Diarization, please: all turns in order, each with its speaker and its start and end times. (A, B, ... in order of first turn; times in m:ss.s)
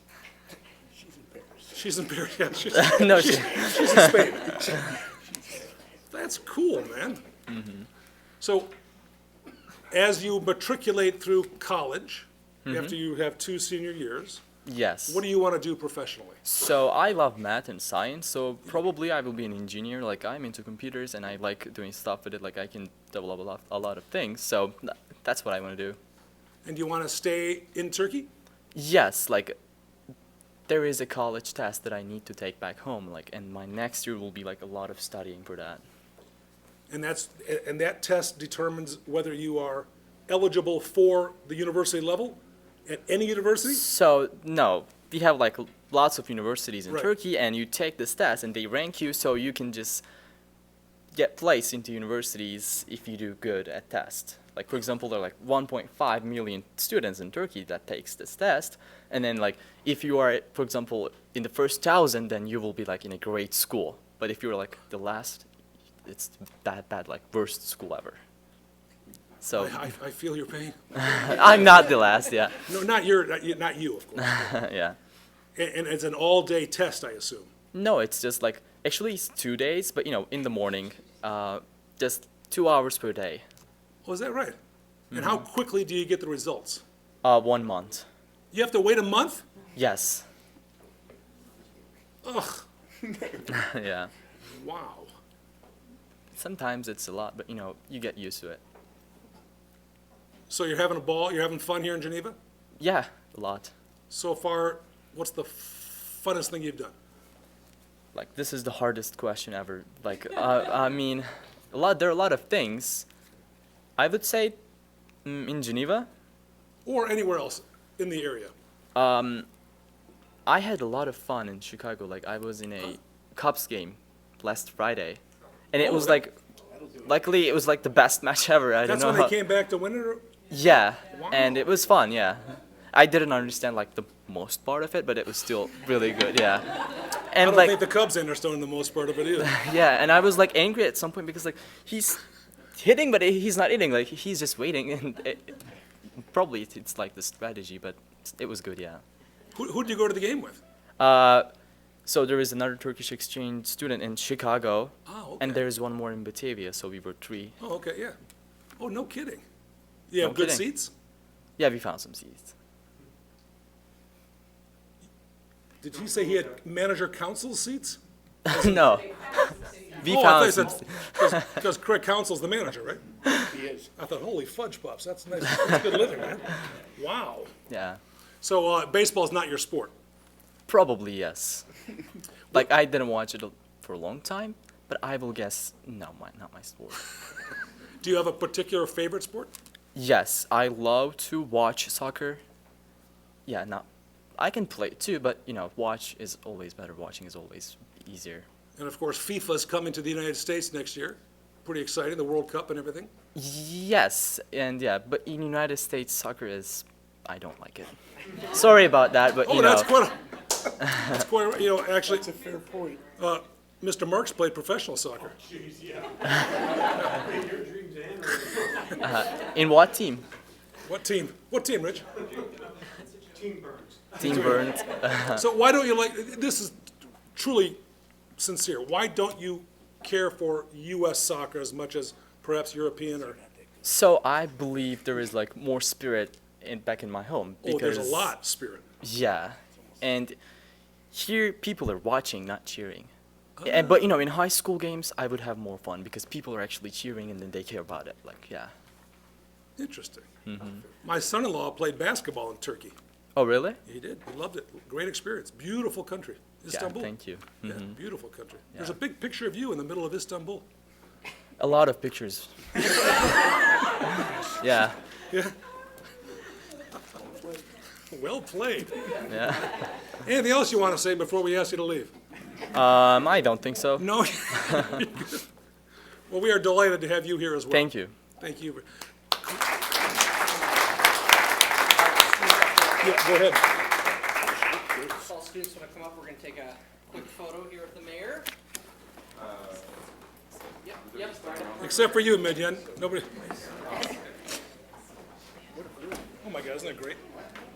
0:01.0-0:01.7 A
0:01.7-0:05.0 B
0:02.7-0:04.6 C
0:06.1-0:07.2 B
0:07.5-0:07.9 C
0:08.4-0:08.7 B
0:09.9-0:14.4 B
0:12.6-0:12.9 C
0:14.6-0:15.2 C
0:15.1-0:16.4 B
0:16.4-0:26.0 C
0:26.6-0:28.3 B
0:28.7-0:29.6 C
0:30.7-0:35.8 C
0:36.9-0:43.8 B
0:43.6-0:50.0 C
0:51.1-1:05.4 C
1:06.0-1:08.2 C
1:09.4-1:09.9 C
1:09.5-1:10.8 B
1:10.9-1:12.6 C
1:12.7-1:14.6 B
1:14.2-1:15.0 C
1:15.6-1:17.5 B
1:17.7-1:23.4 C
1:24.0-1:24.6 B
1:25.1-1:25.4 C
1:25.1-1:26.8 B
1:27.2-1:28.0 C
1:28.5-1:29.4 B
1:29.8-1:30.2 C
1:32.2-1:32.6 B
1:33.4-1:34.1 C
1:34.5-1:35.1 B
1:36.3-1:38.6 C
1:40.5-1:42.4 B
1:42.8-1:43.7 C
1:44.1-1:46.9 B
1:48.1-1:53.1 C
1:54.0-1:54.6 C
1:55.2-1:56.1 C
1:56.8-1:58.5 B
1:58.9-1:59.5 C
2:00.4-2:06.3 C
2:05.8-2:06.2 B
2:07.0-2:09.3 C
2:08.8-2:10.2 B
2:10.5-2:17.8 C
2:11.1-2:11.6 B
2:17.4-2:19.5 B
2:19.4-2:22.2 C
2:22.7-2:25.6 C
2:26.2-2:29.0 C
2:29.5-2:30.6 B
2:31.0-2:31.5 C
2:32.0-2:37.6 C
2:35.0-2:35.6 B
2:37.6-2:38.2 B
2:38.8-2:39.4 B
2:40.1-2:40.9 B
2:40.2-2:40.6 C
2:41.6-2:42.5 C
2:45.8-2:49.0 B
2:48.4-2:49.3 C
2:50.0-2:51.5 C
2:50.0-2:53.0 B
2:53.5-2:53.9 A
2:54.0-2:57.5 B
2:57.7-2:58.0 C
2:58.4-2:59.9 B
3:00.7-3:01.6 C
3:02.5-3:07.0 C
3:08.0-3:09.5 B
3:09.9-3:12.4 C
3:13.4-3:13.9 C
3:14.4-3:18.5 C
3:18.8-3:23.1 B
3:23.3-3:29.9 C
3:29.4-3:30.2 B
3:30.9-3:32.4 B
3:32.2-3:33.0 A
3:33.1-3:35.4 B
3:35.5-3:39.0 A
3:39.0-3:40.2 C
3:40.8-3:42.1 B
3:43.3-3:44.4 A
3:44.2-3:45.4 C
3:44.2-3:46.8 B
3:47.3-3:47.8 B
3:48.4-3:53.4 B
3:53.8-3:58.3 C
3:57.6-3:58.9 B
3:59.0-4:00.4 C
4:01.1-4:03.1 C
4:03.6-4:04.1 B
4:03.6-4:08.7 C
4:09.8-4:10.3 B
4:10.4-4:10.9 C
4:11.0-4:12.9 B
4:13.4-4:13.8 C
4:13.8-4:20.6 B
4:16.7-4:18.0 C
4:21.6-4:23.2 C
4:24.4-4:25.0 C
4:28.1-4:29.2 B
4:29.2-4:29.8 C
4:30.2-4:32.1 B
4:32.7-4:35.0 C
4:34.0-4:35.4 B
4:36.3-4:37.9 B
4:37.7-4:38.1 C
4:38.4-4:38.8 B
4:42.0-4:43.1 D
4:43.0-4:43.7 B
4:45.2-4:48.5 D
4:50.8-4:52.0 D
4:51.8-4:53.3 B
4:55.8-4:56.1 A
4:56.3-4:57.2 B